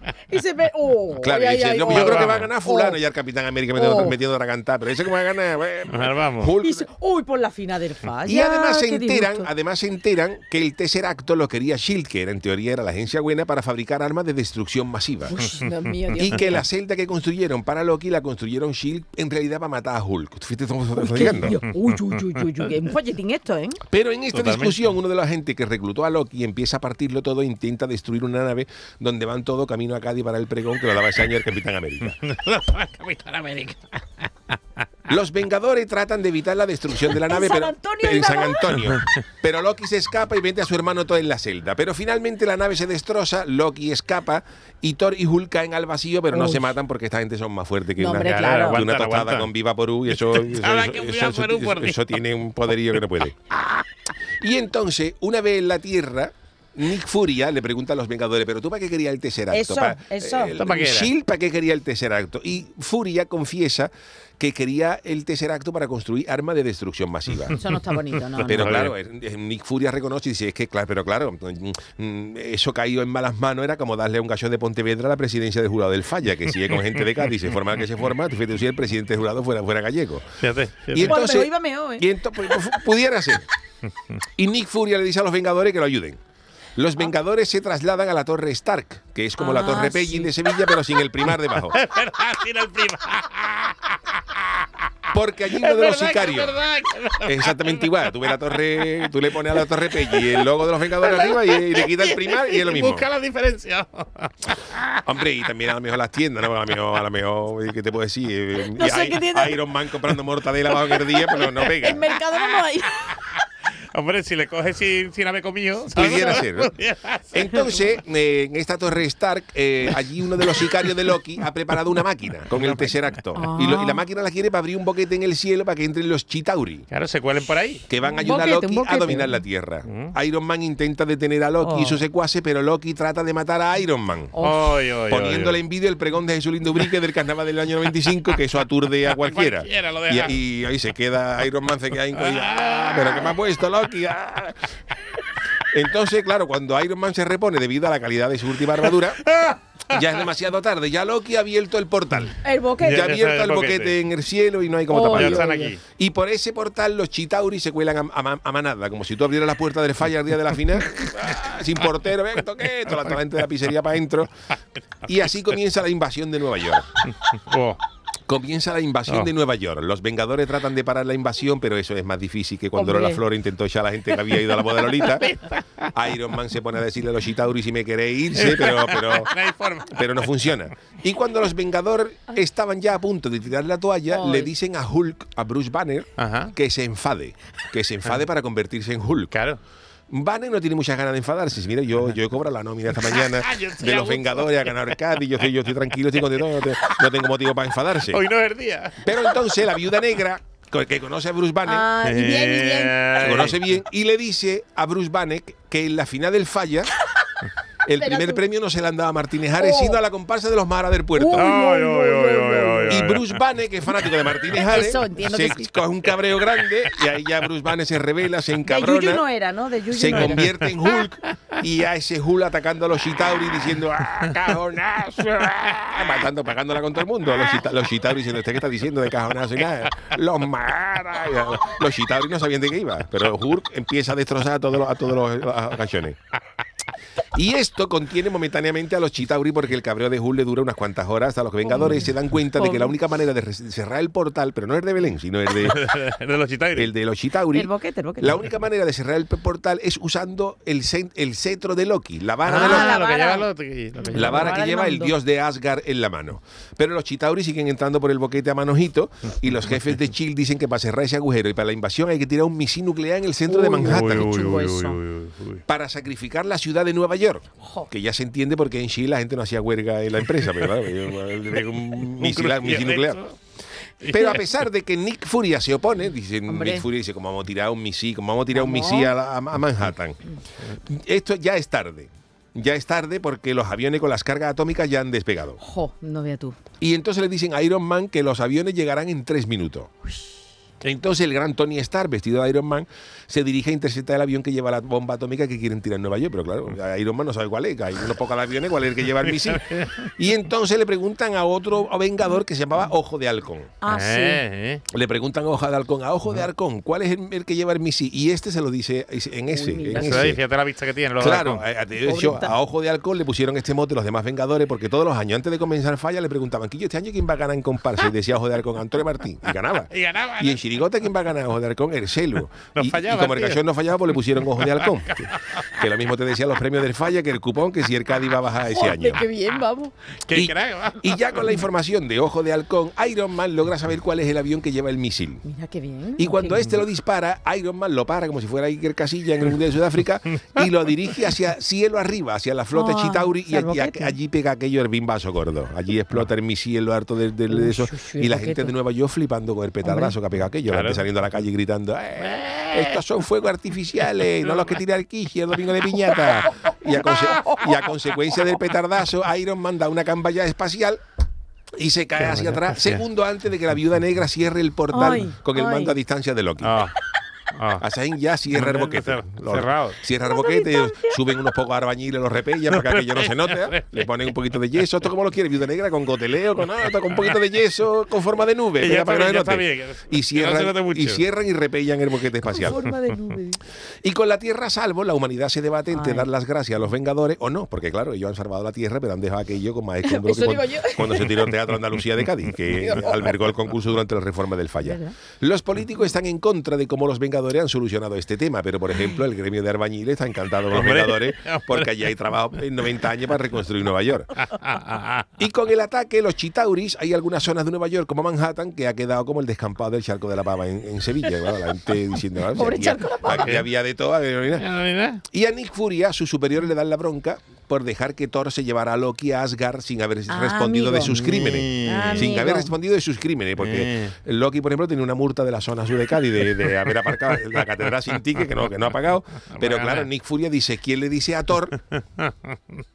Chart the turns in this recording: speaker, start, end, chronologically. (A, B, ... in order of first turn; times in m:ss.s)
0:00.3-0:03.0 A
0:01.2-0:06.8 B
0:01.8-0:02.5 C
0:03.8-0:04.2 A
0:05.9-0:06.5 C
0:06.6-0:09.5 A
0:08.2-0:15.4 B
0:15.3-0:16.6 A
0:16.2-0:21.6 B
0:21.0-0:23.8 A
0:22.1-0:22.4 C
0:23.9-0:32.2 B
0:24.3-0:24.8 C
0:32.0-0:34.3 C
0:35.1-0:53.4 B
0:37.2-0:38.6 A
0:46.3-0:46.7 A
0:48.0-0:48.8 A
0:48.2-0:49.5 C
0:50.1-0:52.1 C
0:54.4-1:07.6 B
0:59.5-1:00.6 A
1:00.6-1:01.1 C
1:07.6-1:08.8 A
1:08.4-1:23.5 B
1:08.5-1:08.9 C
1:20.4-1:21.2 C
1:21.0-1:22.6 A
1:24.4-1:26.2 B
1:26.8-1:31.8 B
1:29.4-1:30.3 A
1:31.7-1:34.7 C
1:35.1-1:36.6 B
1:35.5-1:39.1 C
1:37.2-1:43.0 B
1:40.0-1:40.5 C
1:41.0-1:45.0 C
1:45.0-1:52.0 B
1:48.8-1:49.6 A
1:51.8-1:53.2 A
1:52.5-1:53.4 C
1:53.9-1:57.9 C
1:55.9-1:56.7 B
1:57.3-2:06.9 B
2:02.5-2:03.0 C
2:03.4-2:04.0 A
2:06.9-2:07.9 C
2:07.9-2:14.3 B
2:08.1-2:09.4 A
2:09.9-2:10.1 C
2:11.6-2:12.0 A
2:14.3-2:14.6 A
2:14.4-2:15.6 C
2:15.1-2:24.7 B
2:19.1-2:20.4 C
2:22.2-2:23.3 C
2:25.7-2:29.3 B
2:28.8-2:30.1 C
2:29.9-2:44.3 B
2:32.4-2:33.1 A
2:32.8-2:34.0 C
2:34.9-2:35.7 A
2:35.1-2:35.8 C
2:42.7-2:43.1 C
2:45.1-2:47.0 B
2:47.0-2:47.8 C
2:48.3-2:55.3 B
2:52.8-2:53.2 A
2:55.0-2:55.9 C
2:55.9-3:09.3 B
2:58.4-3:00.7 C
3:04.1-3:04.5 A
3:06.2-3:06.5 C
3:09.3-3:09.6 C
3:10.1-3:18.2 B
3:13.0-3:15.0 C
3:16.3-3:17.0 C
3:18.1-3:19.1 C
3:19.0-3:21.9 B
3:21.7-3:23.1 A
3:22.0-3:23.6 C
3:23.2-3:26.9 B
3:27.8-3:31.5 B
3:28.0-3:28.4 A
3:29.6-3:30.0 A
3:31.2-3:33.0 A
3:31.4-3:33.4 C
3:32.9-3:39.2 B
3:34.5-3:35.7 A
3:38.7-3:40.5 A
3:39.9-3:56.2 B
3:40.1-3:40.8 C
3:57.3-4:05.9 B
4:01.6-4:02.9 A
4:05.6-4:06.9 C
4:06.7-4:13.0 B
4:07.5-4:08.4 A
4:12.5-4:14.5 C
4:12.5-4:13.5 A
4:14.0-4:15.1 A
4:14.1-4:24.6 B
4:23.5-4:25.0 A
4:23.8-4:25.6 C
4:25.7-4:33.2 B
4:27.6-4:27.9 A
4:32.1-4:33.4 C
4:34.0-4:34.4 C
4:34.0-4:40.2 B
4:36.5-4:36.8 A
4:38.5-4:39.1 A
4:40.7-4:45.6 B
4:45.6-4:46.6 A
4:46.8-4:49.9 B
4:50.8-5:03.7 B
4:59.2-5:00.1 C
5:03.8-5:04.4 A
5:03.9-5:04.8 C
5:04.9-5:10.4 B
5:09.5-5:10.3 A
5:10.0-5:11.6 C
5:11.2-5:29.2 B
5:12.0-5:12.6 A
5:19.5-5:20.6 C
5:22.7-5:23.6 C
5:24.6-5:25.8 C
5:28.7-5:29.9 A
5:30.2-5:31.5 C
5:30.3-5:35.4 B
5:35.4-5:36.6 A
5:36.2-6:01.0 B
5:42.7-5:44.2 A
5:47.5-5:48.7 A
5:49.8-5:50.2 A
5:50.7-5:51.0 C
5:52.2-5:53.0 C
6:01.7-6:06.8 B
6:02.2-6:03.0 C
6:04.9-6:06.0 A
6:06.6-6:07.0 C
6:07.5-6:07.8 C
6:07.8-6:23.0 B
6:08.5-6:10.0 C
6:10.3-6:11.2 A
6:12.7-6:14.2 C
6:17.1-6:17.4 C
6:18.8-6:21.2 C
6:22.6-6:23.6 A
6:24.0-6:44.3 B
6:25.9-6:26.3 A
6:30.0-6:31.3 A
6:32.0-6:32.3 C
6:32.7-6:33.3 A
6:34.8-6:35.1 A
6:40.7-6:42.0 C
6:44.5-6:45.3 C
6:45.4-7:11.8 B
6:52.5-6:53.6 A
6:53.4-6:53.6 C
6:54.6-6:55.2 C
7:00.3-7:02.7 A
7:01.1-7:02.3 C
7:03.6-7:04.1 C
7:09.5-7:10.1 C
7:11.9-7:12.3 C